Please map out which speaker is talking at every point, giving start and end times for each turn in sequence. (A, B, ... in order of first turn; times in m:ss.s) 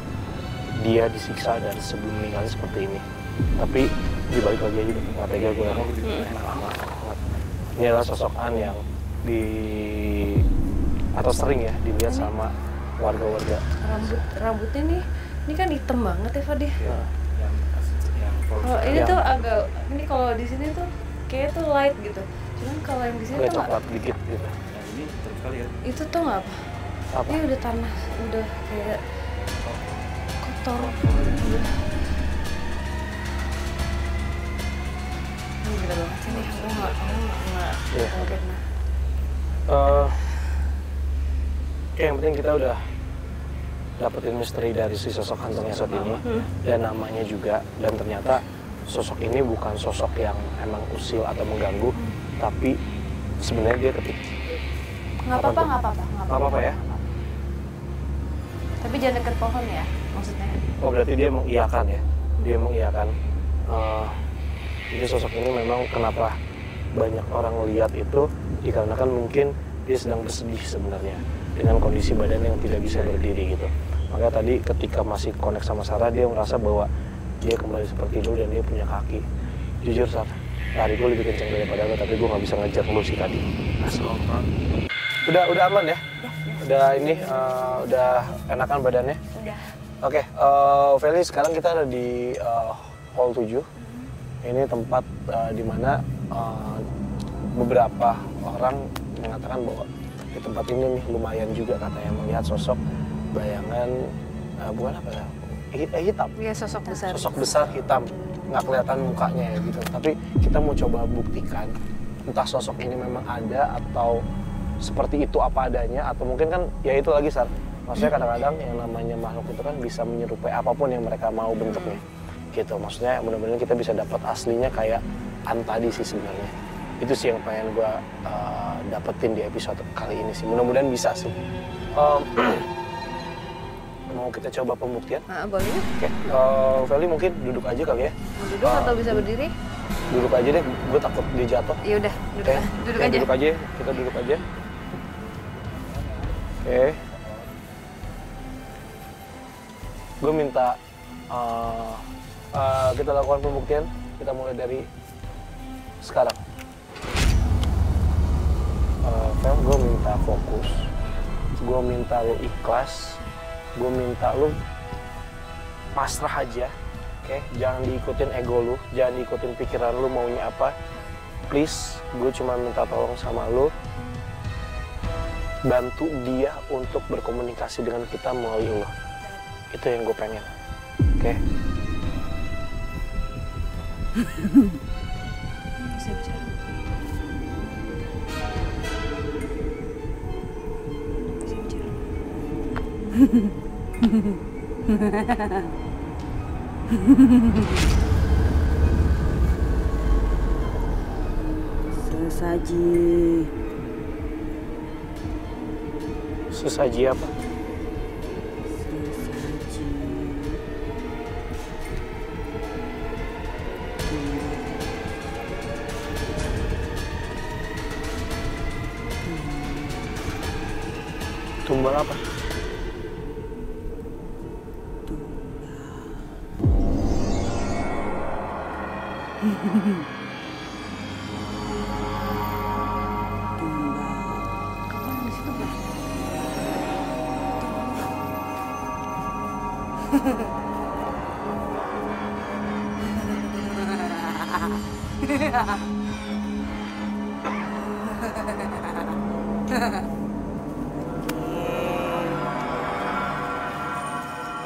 0:00.8-0:03.0 A
0:03.6-0:07.2 A
0:05.3-0:06.7 B
0:06.0-0:06.3 C
0:07.8-0:10.4 A
0:11.1-0:14.2 A
0:12.0-0:12.3 C
0:13.8-0:16.8 C
0:16.8-0:19.5 B
0:16.8-0:17.1 A
0:18.6-0:23.7 C
0:18.9-0:19.2 A
0:23.3-0:24.5 A
0:24.7-0:25.7 B
0:25.8-0:26.6 C
0:27.1-0:27.4 A
0:27.3-0:29.0 C
0:30.4-0:31.8 C
0:35.6-0:38.6 C
0:36.3-0:37.2 B
0:37.9-0:38.2 A
0:39.7-0:40.3 A
0:42.0-0:42.8 A
0:44.0-0:52.8 A
0:45.4-0:46.5 B
0:53.4-0:54.3 A
0:55.2-0:57.0 C
0:55.3-0:55.7 A
0:56.3-0:56.8 A
0:58.8-1:00.6 C
1:00.8-1:03.1 A
1:03.7-1:04.2 A
1:04.9-1:06.4 A
1:07.0-1:16.9 A
1:17.4-1:19.2 A
1:19.8-1:24.2 A
1:23.8-1:24.4 B
1:25.2-1:26.0 A
1:26.2-1:27.9 C
1:26.6-1:29.2 A
1:29.4-1:29.7 C
1:30.0-1:33.7 A
1:33.8-1:34.1 C
1:34.4-1:36.8 A
1:37.5-1:42.8 A
1:43.3-1:46.3 A
1:46.4-1:47.4 C
1:47.0-1:51.7 A
1:52.3-1:54.2 A
1:54.8-2:02.0 A
2:01.5-2:02.0 C
2:02.5-2:11.4 A
2:11.9-2:12.7 A
2:14.1-2:15.2 A
2:15.3-2:15.9 C
2:16.0-2:19.3 A
2:18.4-2:19.5 C
2:20.1-2:21.8 A
2:21.8-2:23.3 C
2:22.4-2:24.5 A
2:26.6-2:27.0 A
2:30.2-2:30.8 A
2:31.3-2:34.9 A
2:36.0-2:36.4 A
2:39.0-2:40.9 A
2:41.6-2:43.2 A
2:43.8-2:44.6 A
2:45.9-2:46.7 A
2:47.2-2:50.8 A
2:51.5-2:53.7 A
2:55.6-2:58.9 A
2:59.7-3:00.5 A
3:05.8-3:06.6 C
3:11.4-3:12.0 C
3:15.0-3:15.6 D
3:22.0-3:23.5 D
3:26.5-3:27.4 A
3:28.8-3:30.6 D
3:34.0-3:35.0 D
3:39.3-3:40.1 D
3:41.6-3:42.2 A
3:45.1-3:46.2 D
3:53.6-3:54.5 D
3:54.9-3:55.9 C
3:57.6-3:58.1 C
4:03.9-4:04.5 D
4:11.1-4:12.5 D